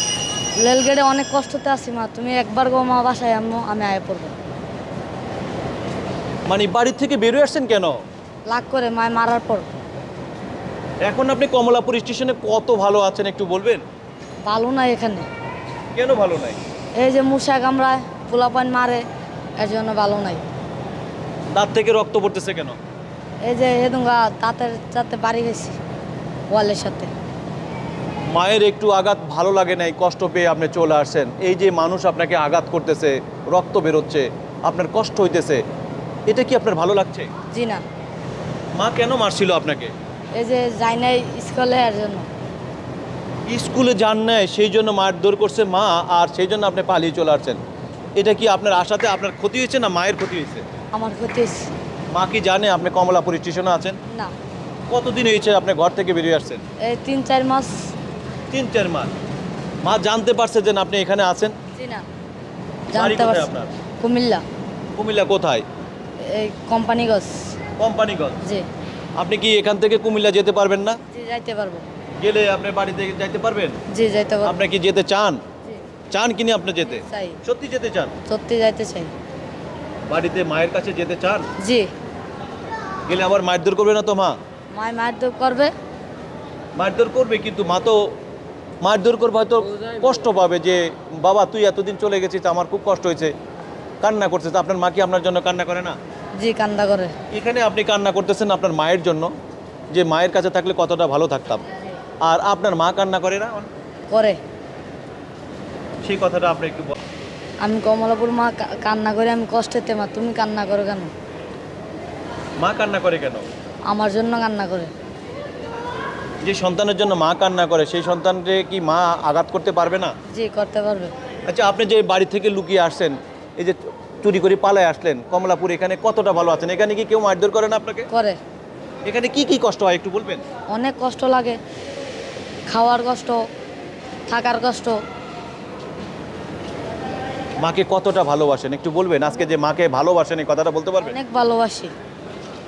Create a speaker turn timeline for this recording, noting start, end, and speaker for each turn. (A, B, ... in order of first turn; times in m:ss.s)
0:00.5-0:04.3 A
0:06.5-0:08.0 B
0:08.5-0:09.7 A
0:11.0-0:13.8 B
0:14.4-0:15.3 A
0:15.9-0:16.6 B
0:17.0-0:19.0 A
0:19.6-0:20.4 A
0:21.5-0:22.8 B
0:23.4-0:25.8 A
0:26.5-0:27.1 A
0:28.3-0:35.6 B
0:36.3-0:37.3 B
0:37.5-0:37.8 A
0:38.8-0:39.9 B
0:40.3-0:42.3 A
0:43.5-0:47.6 B
0:48.2-0:50.6 B
0:50.9-0:51.7 A
0:52.1-0:54.0 B
0:54.9-0:56.6 B
0:56.8-0:57.9 A
0:58.5-0:59.1 B
0:59.8-1:01.6 B
1:01.7-1:02.0 A
1:02.9-1:04.4 A
1:02.9-1:03.7 B
1:05.0-1:05.6 B
1:06.2-1:07.6 A
1:07.8-1:08.4 B
1:09.2-1:11.0 B
1:11.1-1:11.8 A
1:12.2-1:13.8 B
1:13.9-1:14.6 A
1:14.4-1:15.4 B
1:16.1-1:18.1 B
1:16.8-1:17.4 A
1:18.3-1:19.1 A
1:20.1-1:21.5 B
1:21.6-1:21.9 A
1:23.1-1:24.4 B
1:24.7-1:25.7 A
1:26.8-1:28.1 B
1:28.8-1:33.3 B
1:34.0-1:36.0 B
1:36.4-1:37.1 A
1:37.3-1:39.3 B
1:39.9-1:41.6 B
1:42.2-1:43.7 B
1:44.1-1:44.4 A
1:46.0-1:47.0 B
1:47.6-1:51.1 A
1:52.6-1:53.5 B
1:53.9-1:54.9 A
1:56.4-2:00.1 B
2:00.3-2:01.1 A
2:01.5-2:08.1 B
2:08.1-2:08.4 A
2:09.0-2:10.4 B
2:10.7-2:11.6 A
2:12.7-2:13.4 A
2:14.3-2:15.0 A
2:17.6-2:21.2 B
2:21.0-2:21.9 A